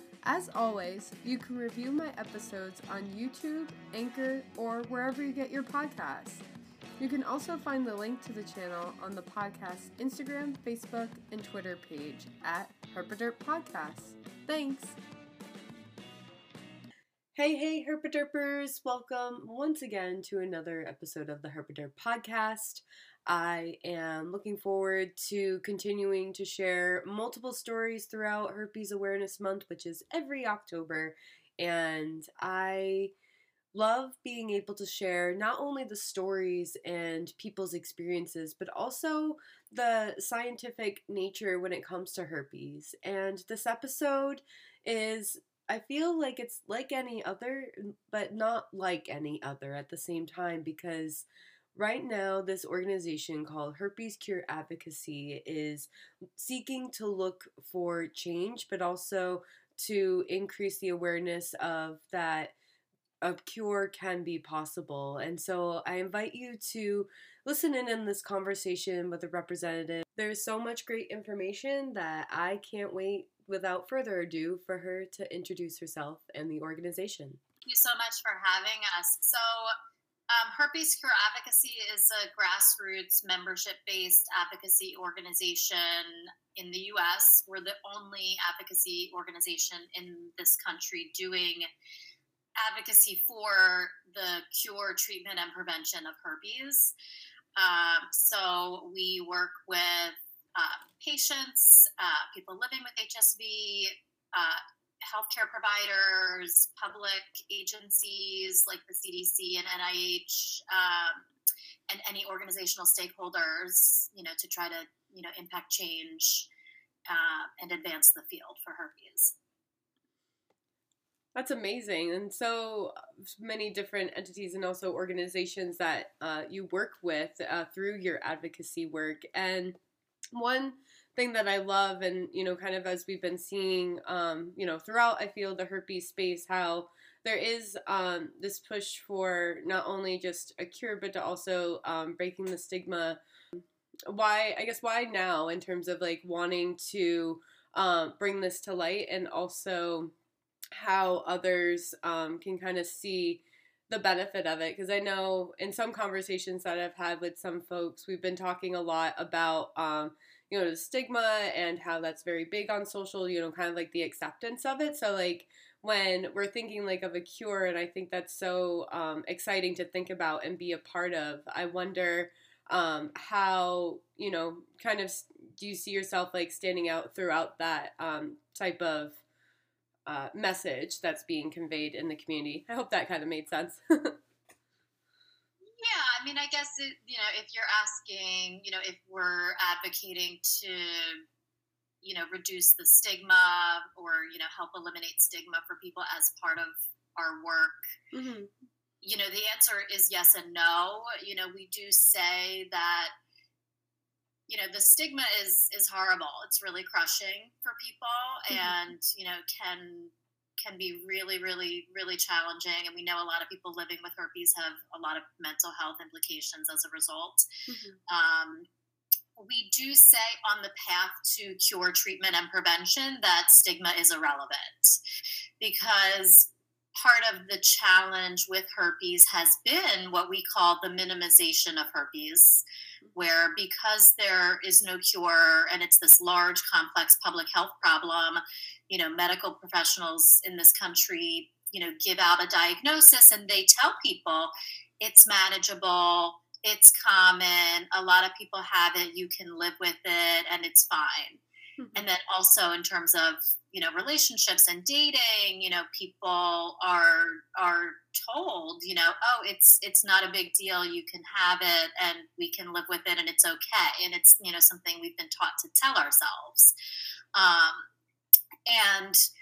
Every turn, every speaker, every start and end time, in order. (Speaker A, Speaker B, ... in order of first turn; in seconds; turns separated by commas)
Speaker A: 0.2-6.4, Speaker A: 7.0-15.0, Speaker A: 17.4-33.1, Speaker A: 33.7-62.5, Speaker A: 63.2-77.4, Speaker B: 77.6-79.7, Speaker B: 80.3-91.7, Speaker B: 92.6-96.9, Speaker B: 97.5-111.3, Speaker B: 111.9-116.5, Speaker B: 117.1-119.3, Speaker A: 121.3-129.8, Speaker A: 130.3-150.1, Speaker A: 150.8-179.2, Speaker A: 180.1-184.2, Speaker B: 185.7-191.2, Speaker B: 192.0-197.8, Speaker A: 198.1-198.5, Speaker B: 199.0-203.1, Speaker B: 204.5-217.4, Speaker A: 208.5-208.9, Speaker A: 217.7-218.0, Speaker B: 218.1-218.7, Speaker B: 219.3-225.0, Speaker B: 225.6-232.6, Speaker B: 233.2-251.4, Speaker A: 251.8-252.1, Speaker B: 252.0-266.7, Speaker B: 267.3-267.9, Speaker B: 268.7-269.2